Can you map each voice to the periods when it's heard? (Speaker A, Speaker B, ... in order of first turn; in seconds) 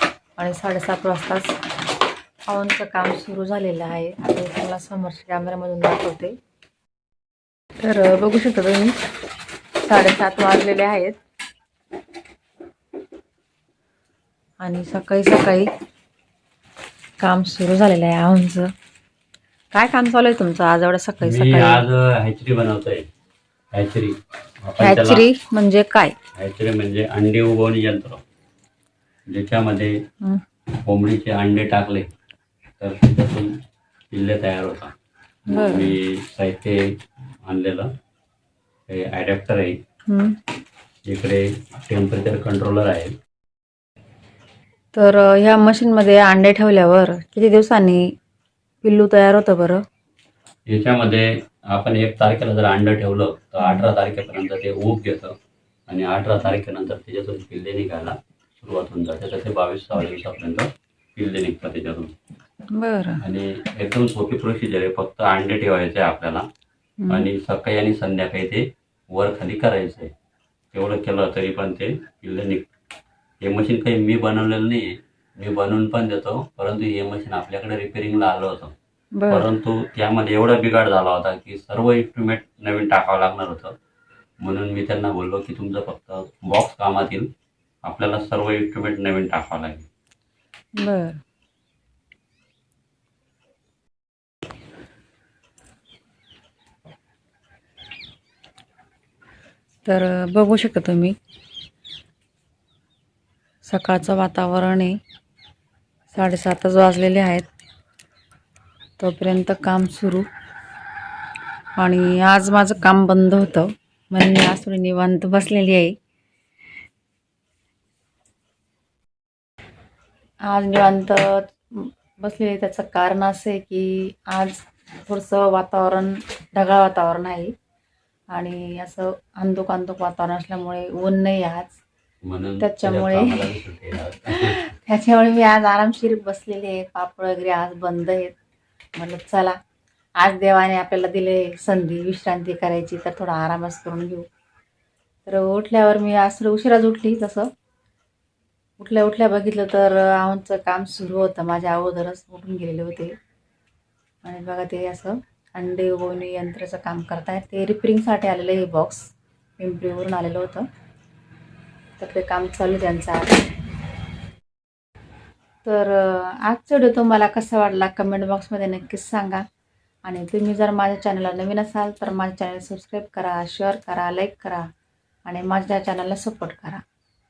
Speaker A: 0.4-1.6, 2.5-6.4, 7.8-8.9, 9.8-11.2, 14.6-15.7, 17.2-18.7, 19.7-21.8, 24.8-26.1, 35.5-36.0, 40.1-40.3, 44.9-48.1, 48.8-49.8, 53.6-53.9, 62.7-63.2, 67.0-67.3, 79.2-79.5, 90.8-91.2, 99.8-101.2, 103.6-105.0, 106.1-107.5, 109.0-110.3, 111.8-115.9, 120.5-127.5, 128.3-131.8, 132.6-133.5, 134.3-138.3, 138.9-139.6, 140.2-144.2, 145.2-147.5, 148.8-153.1, 154.2-159.1, 159.6-160.7, 162.0-163.4, 165.6-169.4, 170.1-174.6, 175.2-176.8
Speaker B: 21.2-23.0, 23.7-25.2, 26.4-28.2, 29.3-30.0, 30.8-32.1, 32.8-33.5, 34.1-34.9, 35.5-36.9, 37.4-37.9, 38.9-39.8, 41.0-43.1, 50.7-55.3, 55.9-62.1, 63.2-66.4, 67.1-70.1, 70.7-72.7, 73.4-78.7, 79.3-83.7, 84.4-87.3, 87.8-89.9, 132.2-134.6